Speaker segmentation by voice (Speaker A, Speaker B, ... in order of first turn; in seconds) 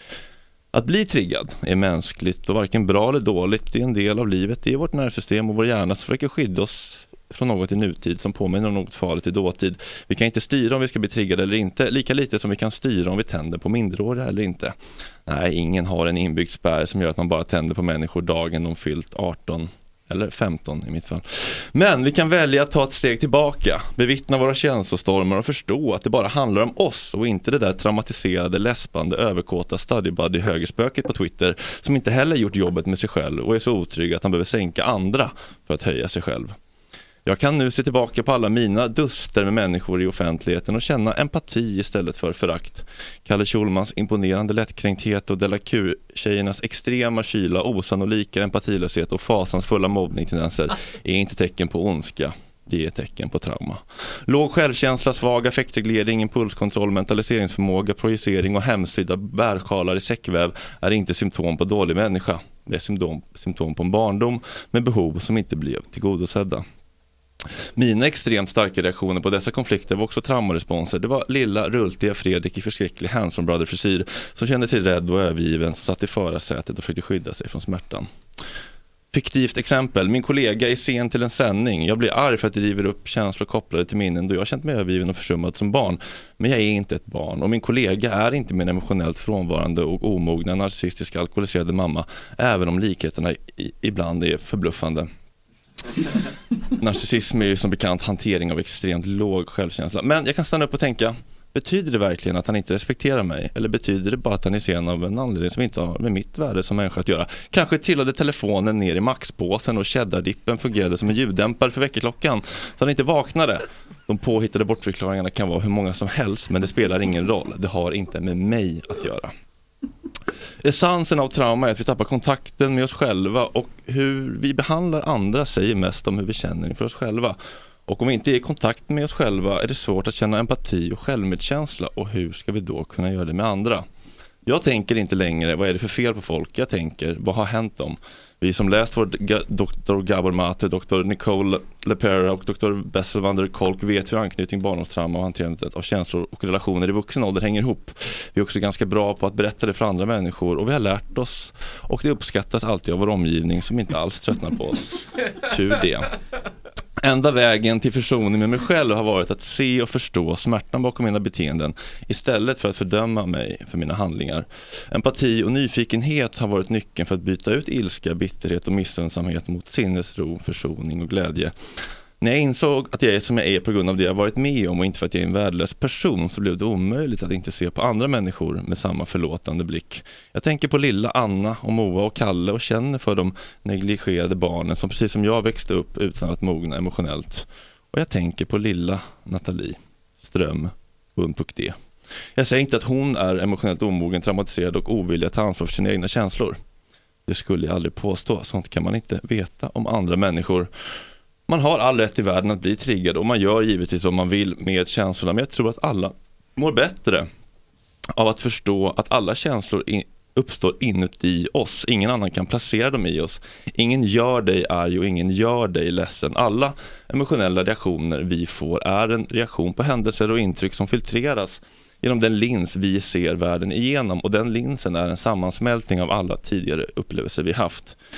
Speaker A: 0.7-14.7, 15.2-36.5, 37.2-66.6, 67.7-78.1, 79.1-95.1, 96.8-119.3, 120.6-133.8, 134.4-156.1, 157.0-171.5, 172.2-191.8, 192.3-196.6, 197.3-200.7, 201.5-207.3, 208.1-228.0